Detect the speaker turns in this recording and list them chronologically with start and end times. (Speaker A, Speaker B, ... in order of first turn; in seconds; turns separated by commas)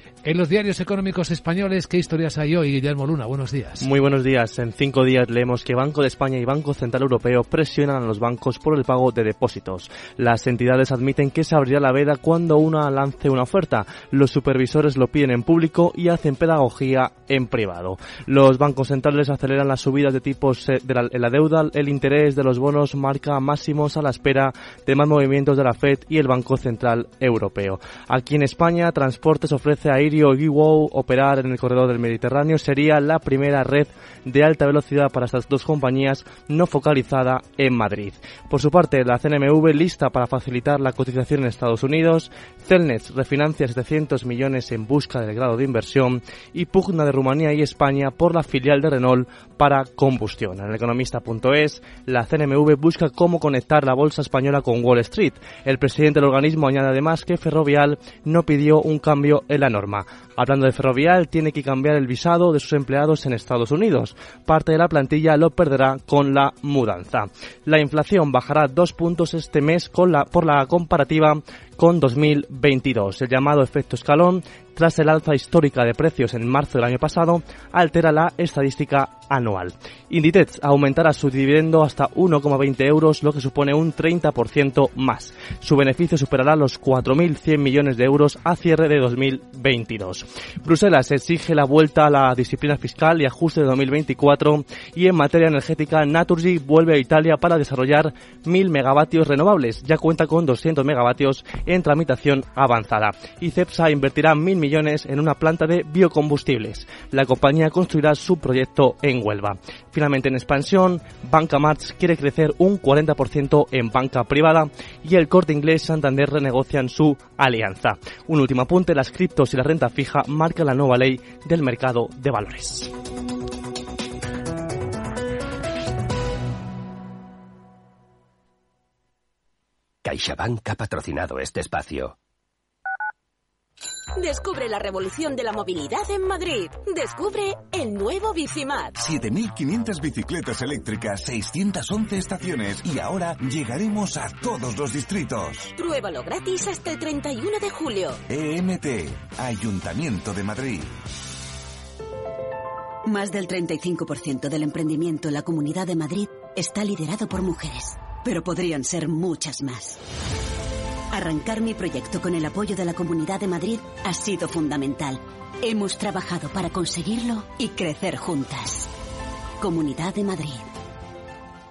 Speaker A: 0.2-3.8, Speaker B: 3.8-122.9, Speaker C: 130.0-132.1, Speaker D: 134.4-134.8, Speaker D: 135.5-137.8, Speaker D: 138.3-138.8, Speaker E: 139.0-145.7, Speaker D: 145.8-148.1, Speaker E: 148.3-150.9, Speaker F: 153.0-160.0, Speaker F: 161.1-168.9, Speaker F: 169.6-170.7